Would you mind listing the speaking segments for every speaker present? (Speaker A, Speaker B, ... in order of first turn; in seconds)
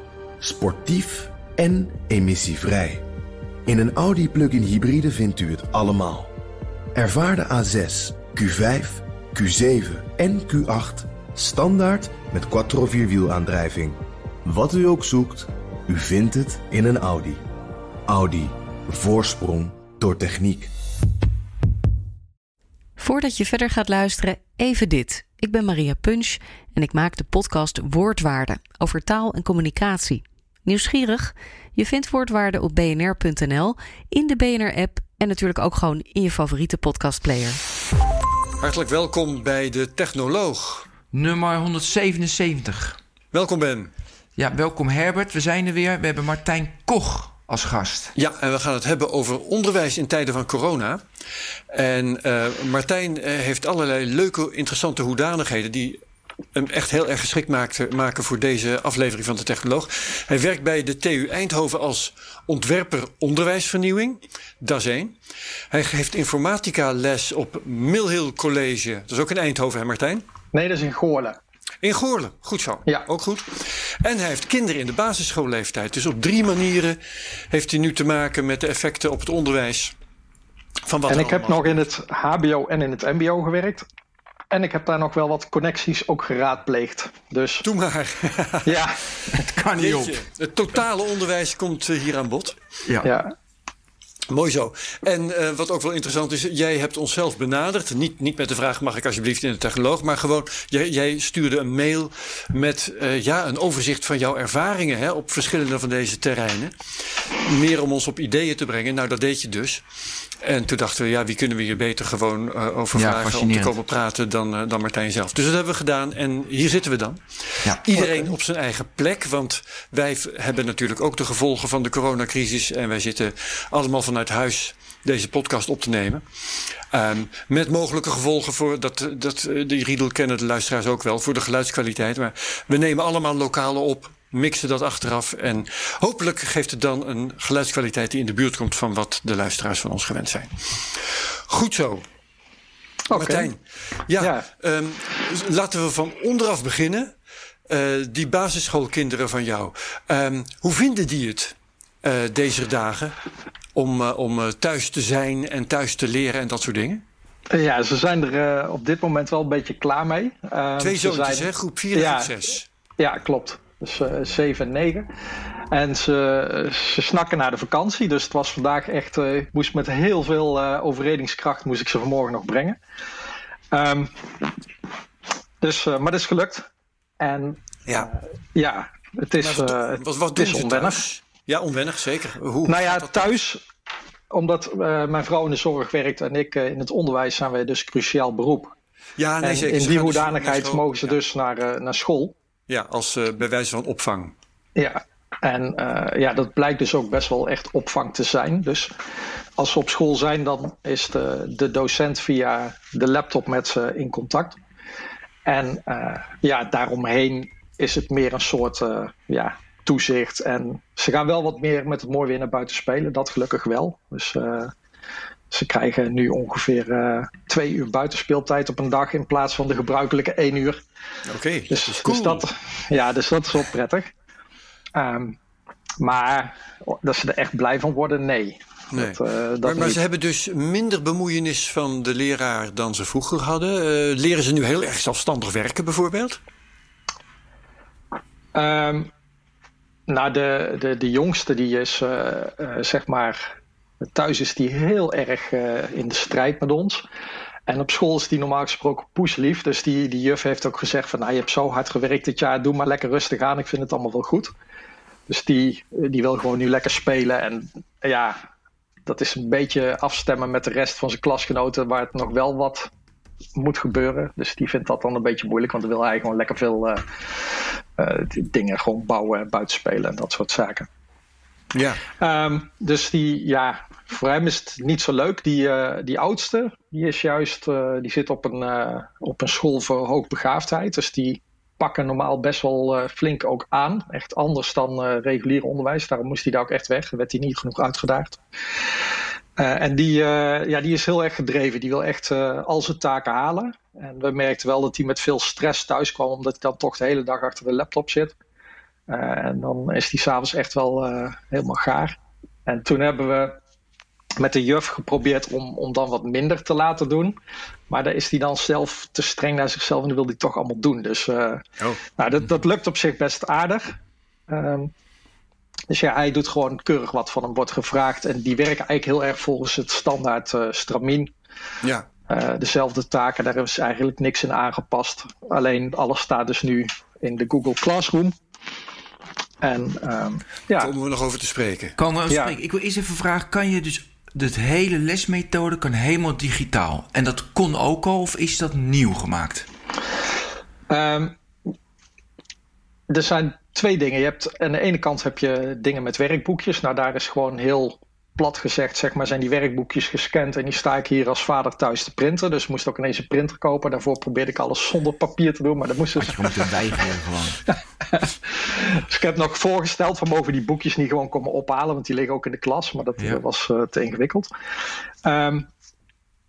Speaker A: 0.4-3.0, 3.6-6.3, 6.9-17.4, 18.1-20.7
Speaker B: 23.0-37.6
Speaker C: 38.6-40.9, 43.3-43.9, 48.1-51.0, 51.7-56.0, 56.5-65.2, 65.7-70.2, 71.8-77.0, 77.5-79.9, 80.8-81.8, 87.6-88.8, 89.8-92.6, 94.3-109.8, 110.4-126.2, 126.9-142.0, 143.1-147.1, 147.7-153.1, 153.7-157.0, 160.8-162.7, 179.4-183.4, 189.2-191.2, 192.7-194.3, 221.2-222.4, 228.9-236.4, 271.7-272.0, 330.8-332.0
Speaker D: 41.1-43.0, 44.4-48.1, 89.3-90.2, 92.8-93.1, 112.9-113.7, 332.0-339.7, 356.1-357.6
Speaker E: 70.5-71.4, 81.1-83.8, 84.5-87.7, 88.6-89.4, 93.0-93.3, 117.9-118.3, 143.1-143.5, 144.2-144.4, 157.5-162.3, 163.0-165.1, 165.7-172.8, 173.7-174.4, 175.6-176.7, 177.2-181.0, 182.7-183.6, 184.3-188.7, 189.4-192.3, 194.8-198.9, 199.6-204.6, 205.4-214.7, 215.5-220.8, 221.7-224.1, 224.9-225.4, 226.0-230.0, 238.5-239.1, 240.1-243.5, 244.1-247.0, 247.7-254.5, 255.3-258.4, 259.1-262.9, 263.6-270.9, 272.1-288.4, 289.6-298.4, 299.1-303.6, 304.4-307.4, 307.9-311.6, 312.2-313.9, 314.5-314.9, 315.9-321.3, 322.3-328.4, 329.6-330.9, 332.3-332.5, 340.9-341.4, 343.1-356.6, 358.1-364.5, 365.2-365.7